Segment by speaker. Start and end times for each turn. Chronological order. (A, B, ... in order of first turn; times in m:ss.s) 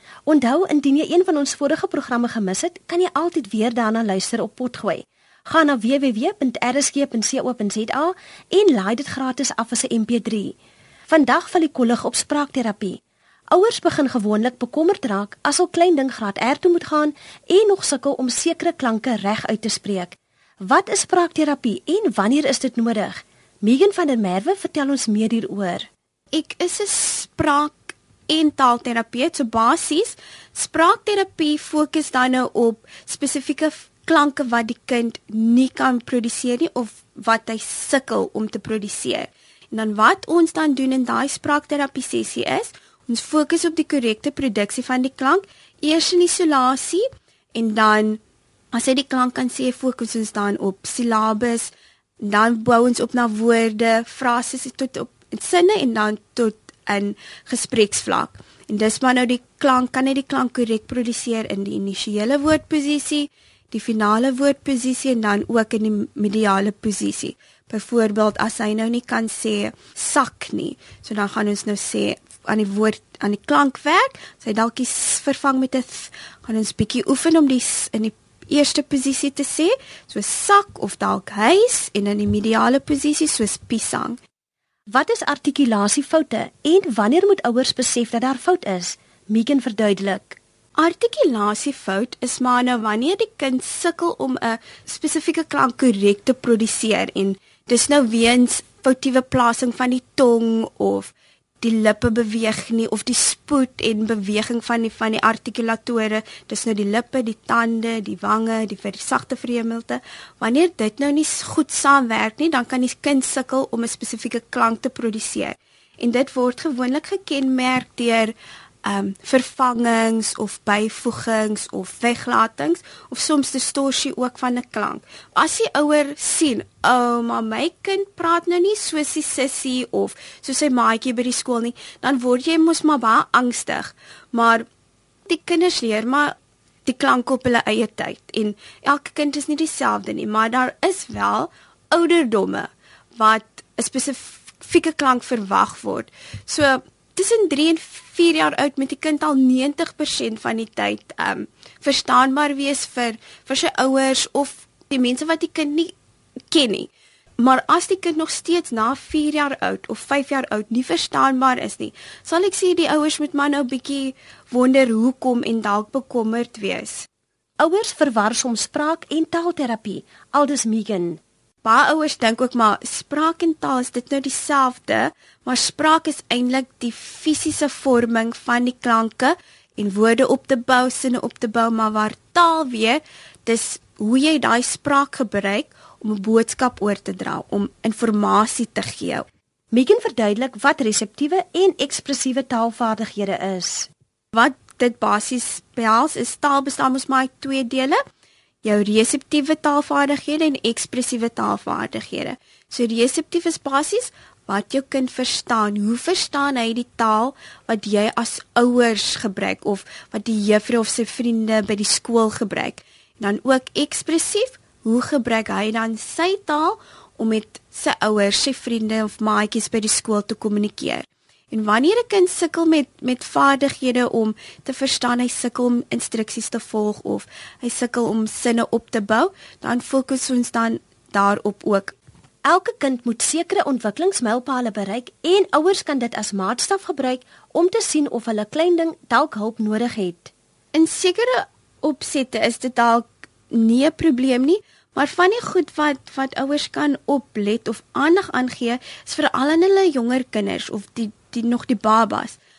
0:00.3-0:10.6 A
0:11.1-0:13.0 A
0:13.5-0:25.9 A
0:26.3-0:48.2 B
0:48.7-1:24.2 B
1:24.9-1:30.4 A
1:30.8-2:14.7 B
2:15.3-2:35.9 B
2:36.5-2:47.1 B
2:47.6-2:51.2 A
2:51.6-3:09.2 B
3:09.7-3:13.9 A
3:14.3-3:18.0 B
3:18.6-3:51.9 B
3:52.4-4:00.3 A
4:00.7-4:12.4 B